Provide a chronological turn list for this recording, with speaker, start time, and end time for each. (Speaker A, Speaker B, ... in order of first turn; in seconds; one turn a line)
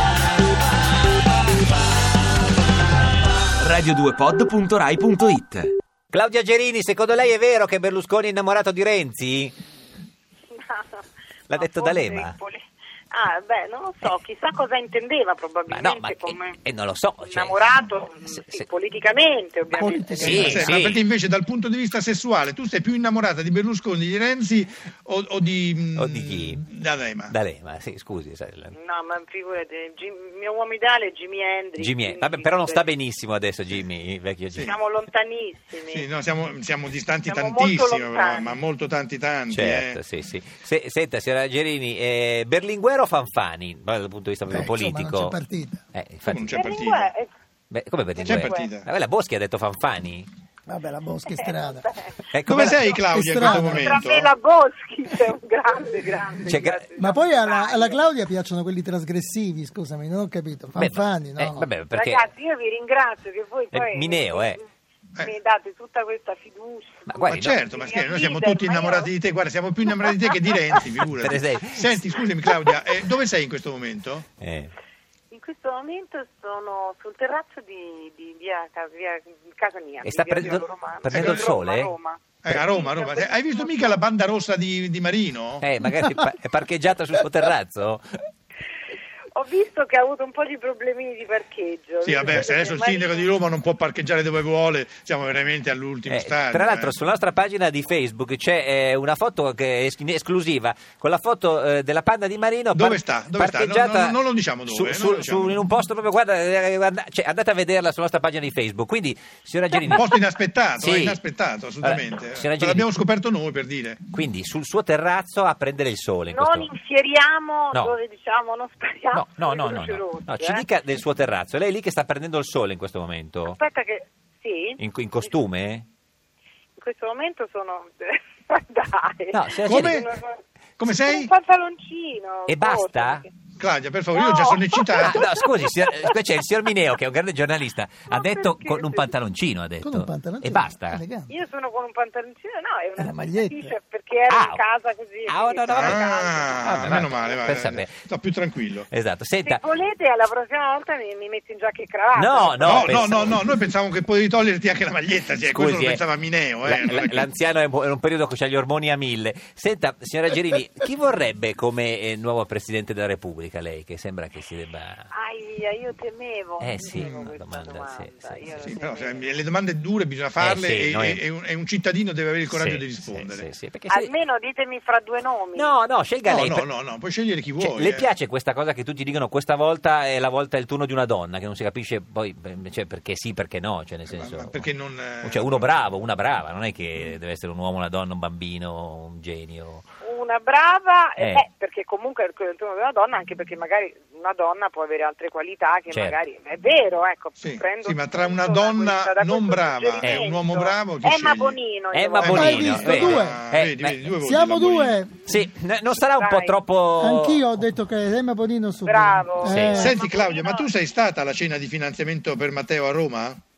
Speaker A: 3.6-5.7
Speaker B: 6.1-9.6
Speaker C: 10.5-16.6
Speaker B: 11.5-12.4
Speaker B: 15.7-17.8
Speaker C: 17.2-20.5
Speaker B: 18.3-18.6
Speaker D: 19.8-20.8
Speaker E: 20.2-27.4
Speaker B: 20.2-21.0
Speaker B: 26.0-26.7
Speaker B: 27.3-28.7
Speaker C: 28.7-32.9
Speaker B: 31.8-34.8
Speaker C: 34.6-36.1
Speaker E: 35.9-40.0
Speaker C: 37.3-38.6
Speaker B: 39.5-45.4
Speaker D: 44.5-45.8
Speaker B: 45.9-46.7
Speaker E: 46.3-47.1
Speaker C: 46.5-47.3
Speaker B: 47.7-50.3
Speaker C: 48.2-48.7
Speaker E: 48.2-48.9
Speaker D: 50.7-51.9
Speaker C: 51.4-52.2
Speaker B: 52.3-53.0
Speaker E: 52.5-54.3
Speaker C: 52.7-58.0
Speaker D: 53.1-54.0
Speaker B: 56.4-56.9
Speaker D: 57.0-61.7
Speaker B: 60.8-62.2
Speaker C: 61.9-64.6
Speaker B: 63.7-64.6
Speaker C: 65.2-69.1
Speaker B: 67.1-67.6
Speaker E: 67.2-74.3
Speaker B: 71.2-71.9
Speaker C: 72.5-72.8
Speaker B: 74.4-74.7
Speaker C: 75.3-84.0
Speaker B: 80.0-81.9
Speaker E: 81.1-81.5
Speaker E: 82.4-85.7
Speaker B: 85.6-88.0
Speaker C: 89.3-93.3
Speaker E: 92.0-97.0
Speaker B: 96.1-110.2
Speaker E: 102.7-105.6
Speaker E: 109.9-114.0
Speaker B: 110.8-111.2
Speaker B: 111.8-112.9
Speaker B: 114.1-116.7
Speaker C: 116.3-120.6
Speaker B: 119.1-123.6
Speaker C: 123.5-125.3
Speaker B: 124.8-125.9
Speaker C: 126.8-133.3
Speaker B: 129.3-130.0
Speaker E: 129.7-130.1
Speaker E: 130.8-131.3
Speaker B: 132.5-133.2
Speaker E: 133.6-135.2
Speaker C: 134.2-136.1
Speaker B: 135.0-141.0
Speaker C: 138.1-139.1
Speaker D: 139.8-141.3
Speaker C: 141.3-147.3
Speaker D: 143.0-143.7
Speaker B: 144.3-144.6
Speaker B: 145.3-146.0
Speaker E: 145.7-148.9
Speaker B: 146.6-147.9
Speaker B: 148.9-149.6
Speaker C: 149.4-153.3
Speaker B: 152.2-153.5
Speaker E: 152.6-157.3
Speaker B: 155.5-156.0
Speaker B: 156.6-165.1
Speaker C: 165.1-169.3
Speaker B: 166.6-168.7
Speaker E: 167.0-167.2
Speaker E: 168.6-173.5
Speaker B: 170.4-171.2
Speaker B: 172.5-174.1
Speaker C: 173.9-175.7
Speaker B: 175.5-176.7
Speaker E: 176.3-178.1
Speaker B: 177.6-184.7
Speaker E: 184.1-185.9
Speaker B: 185.2-189.8
Speaker C: 190.0-203.0
Speaker B: 191.2-191.4
Speaker B: 195.9-196.2
Speaker E: 197.4-201.6
Speaker B: 201.9-204.1
Speaker E: 202.2-205.0
Speaker D: 202.3-203.4
Speaker D: 204.2-205.2
Speaker B: 205.3-207.6
Speaker C: 206.2-206.6
Speaker D: 207.0-209.9
Speaker C: 208.8-210.7
Speaker B: 209.5-209.8
Speaker E: 209.8-213.4